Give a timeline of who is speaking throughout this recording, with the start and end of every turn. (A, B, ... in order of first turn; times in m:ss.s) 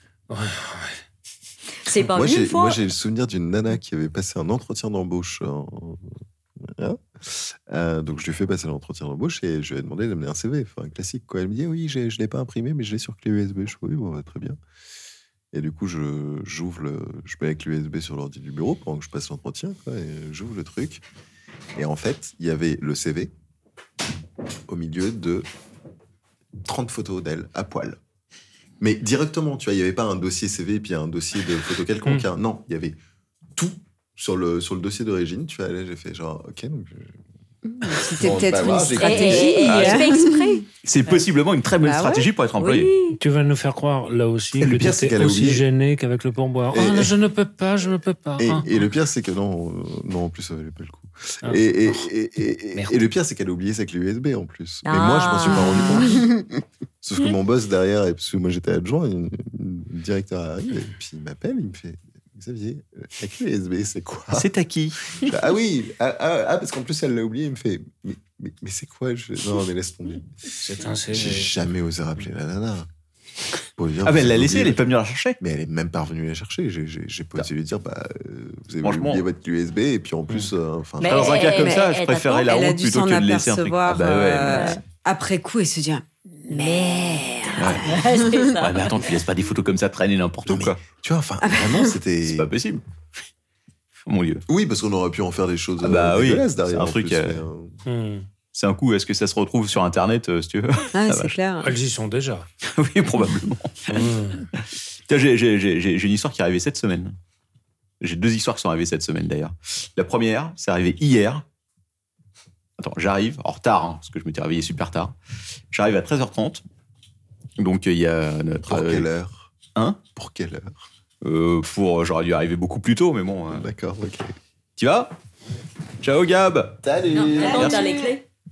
0:00.3-0:01.0 A
0:01.8-0:02.8 B
0:02.1-0:14.6 C
0:15.5-0:21.0 C
0:21.7-0:23.3 C
0:24.7-0:25.5 C
0:26.6-0:28.0 C
0:28.8-0:33.0 C
0:33.6-0:37.2 C
0:37.6-0:40.6 D
0:38.1-0:39.6 C
0:39.0-0:41.2 B
0:39.6-0:40.0 E
0:40.8-0:42.9 E
0:41.8-0:42.3 D
0:42.6-0:43.2 B
0:43.2-0:48.7 A
0:44.6-0:45.6 C
0:46.7-0:47.2 C
0:48.4-0:56.4 C
0:51.4-0:52.1 A
0:52.7-0:53.0 A
0:54.8-0:56.2 B
0:55.7-0:56.2 D
0:57.0-1:04.5 C
1:04.3-1:05.2 E
1:05.2-1:10.3 C
1:10.6-1:11.5 A
1:11.1-1:12.9 C
1:13.8-1:14.8 C
1:14.0-1:15.4 E
1:15.4-1:21.4 C
1:18.8-1:19.2 E
1:21.0-1:22.5 B
1:21.0-1:24.7 E
1:22.4-1:28.5 D
1:24.5-1:24.8 B
1:26.5-1:29.0 B
1:27.6-1:28.0 E
1:28.6-1:30.8 E
1:30.5-1:32.5 C
1:31.4-1:31.9 D
1:32.2-1:32.8 E
1:34.0-1:34.4 E
1:34.5-1:37.8 C
1:35.8-1:37.4 E
1:37.8-1:38.3 A
1:38.5-1:41.4 E
1:40.9-1:41.7 D
1:41.6-1:42.5 A
1:42.6-1:47.2 E
1:43.9-1:44.5 A
1:48.0-1:51.4 E
1:52.8-1:55.1 E
1:55.7-1:56.6 E
1:57.6-1:59.1 E
1:58.6-1:59.5 C
1:59.7-2:00.0 E
2:00.1-2:00.9 C
2:01.2-2:03.6 E
2:03.5-2:04.3 C
2:04.8-2:05.1 E
2:06.0-2:06.8 E
2:06.8-2:07.7 C
2:07.1-2:08.2 B
2:07.3-2:08.1 D
2:07.4-2:07.8 E